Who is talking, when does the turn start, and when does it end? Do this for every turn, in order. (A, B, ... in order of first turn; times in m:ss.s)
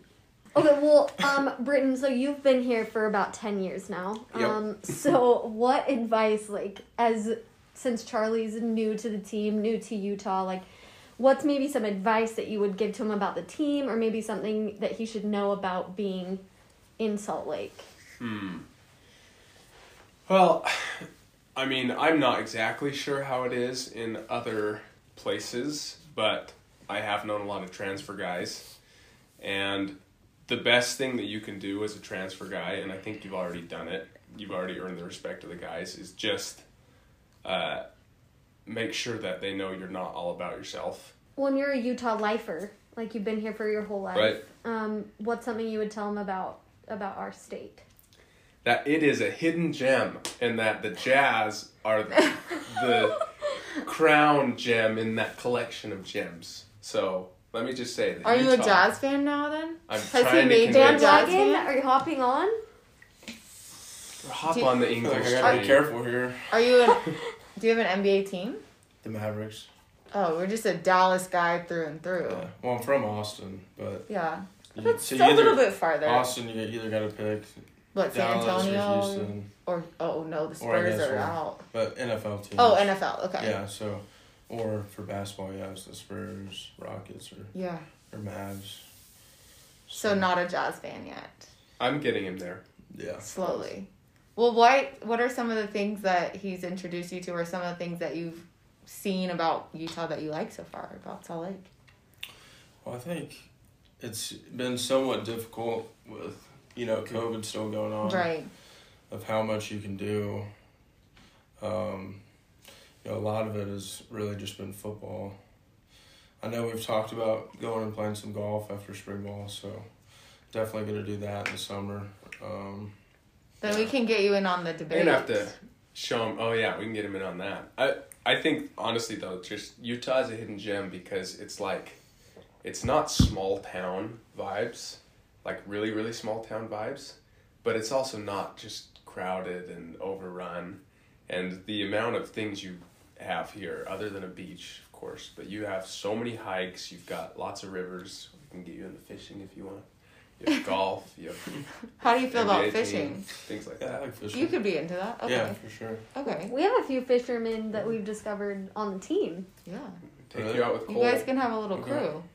0:00.5-0:10.6 A
0:11.2-0:16.4 A
0:17.0-0:17.8 A
0:18.2-0:18.6 B
0:20.2-0:28.7 B
0:29.4-0:29.9 B
0:30.5-0:36.6 B
0:37.4-0:37.8 B
0:38.6-0:41.1 B
0:41.4-0:47.8 A
0:44.1-0:44.4 B
0:48.6-0:53.3 B
0:53.8-0:58.9 B
0:58.2-1:01.7 C
0:59.9-1:01.4 B
1:00.6-1:02.6 A
1:04.2-1:05.8 B
1:04.5-1:05.7 C
1:05.0-1:06.7 D
1:06.5-1:08.6 C
1:09.0-1:09.7 D
1:10.1-1:12.5 C
1:12.3-1:14.1 D
1:14.1-1:16.3 C
1:14.7-1:19.5 D
1:17.9-1:21.6 C
1:20.6-1:27.5 D
1:22.6-1:23.5 C
1:27.5-1:27.8 C
1:28.1-1:28.8 D
1:29.9-1:30.3 D
1:29.9-1:31.5 C
1:31.8-1:32.6 B
1:32.9-1:33.7 D
1:33.2-1:41.7 C
1:42.8-1:43.5 D
1:44.0-1:48.3 D
1:48.0-1:48.5 C
1:49.1-1:50.5 D
1:51.6-1:52.2 D
1:53.0-1:55.4 D
1:56.4-1:59.9 D
2:00.5-2:02.9 D
2:03.6-2:05.5 C
2:03.6-2:03.9 B
2:04.9-2:12.0 B
2:12.6-2:29.8 B
2:30.4-2:31.5 B
2:32.0-2:33.3 C
2:32.3-2:34.0 B
2:33.8-2:34.6 D
2:34.3-2:35.6 C
2:35.2-2:36.0 D
2:36.1-2:36.5 C
2:36.3-2:39.5 A
2:39.6-2:40.0 C
2:40.3-2:41.3 B
2:40.3-2:40.8 D
2:40.9-2:42.2 C
2:41.7-2:42.1 D